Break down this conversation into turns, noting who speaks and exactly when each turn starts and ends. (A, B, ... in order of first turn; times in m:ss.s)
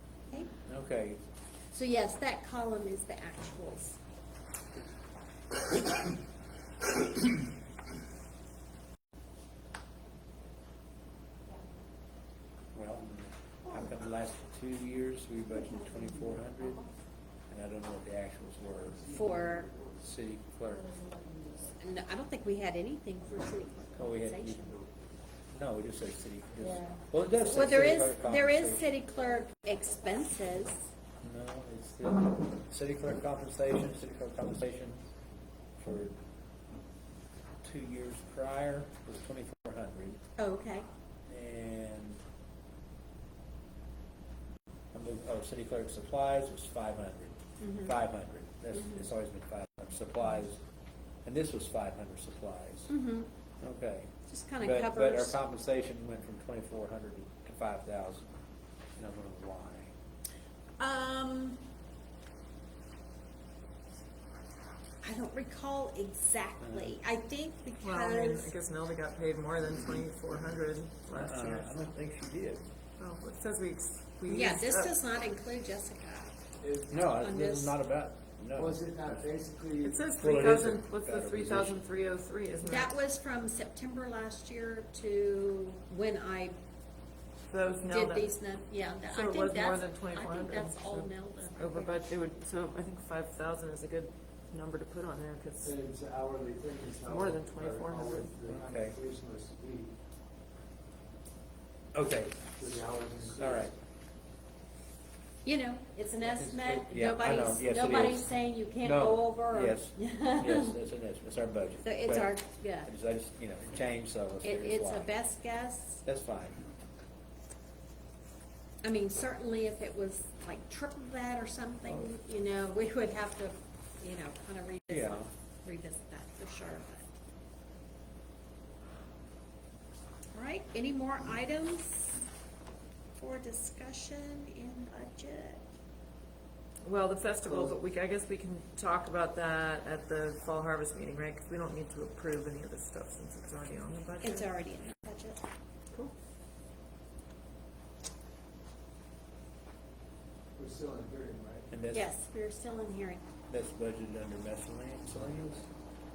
0:00.6-0:01.2 A
0:01.7-0:04.0 B
0:12.7-0:16.9 A
0:17.5-0:19.2 A
0:19.1-0:19.7 B
0:19.9-0:21.0 A
0:21.8-0:24.7 B
0:24.0-0:24.8 A
0:25.5-0:28.9 A
0:27.5-0:30.8 B
0:31.2-0:35.0 A
0:35.8-0:36.2 A
0:37.6-0:40.2 A
0:40.4-0:40.8 B
0:41.3-0:42.2 A
0:44.9-0:50.6 A
0:47.6-0:47.9 B
0:48.7-0:49.1 B
0:51.2-0:52.9 A
0:52.9-0:53.3 B
0:53.6-0:58.3 A
0:54.3-0:55.4 B
0:59.0-0:59.9 A
1:00.8-1:01.6 B
1:05.0-1:08.5 B
1:06.6-1:07.0 A
1:07.8-1:11.8 C
1:11.1-1:12.6 A
1:13.0-1:15.1 C
1:14.3-1:16.4 B
1:16.6-1:17.0 D
1:16.9-1:19.1 A
1:17.1-1:17.8 B
1:18.5-1:20.0 D
1:19.8-1:22.9 C
1:20.2-1:21.8 A
1:22.6-1:26.6 B
1:27.5-1:28.4 C
1:27.9-1:32.0 B
1:29.1-1:35.8 C
1:35.6-1:40.0 D
1:37.0-1:38.3 C
1:38.5-1:39.0 A
1:41.9-1:42.5 A
1:42.6-1:43.7 D
1:43.3-1:43.7 A
1:45.4-1:50.8 B
1:46.2-1:55.1 A
1:51.8-1:52.9 B
1:54.4-1:56.0 B
1:56.0-1:56.6 A
1:58.8-2:07.0 B
2:04.9-2:05.3 A
2:10.3-2:12.2 B
2:13.2-2:15.7 B
2:16.8-2:24.5 C
2:24.2-2:25.4 B
2:30.6-2:31.7 D
2:31.7-2:32.1 A
2:31.9-2:33.2 B
2:33.5-2:35.7 A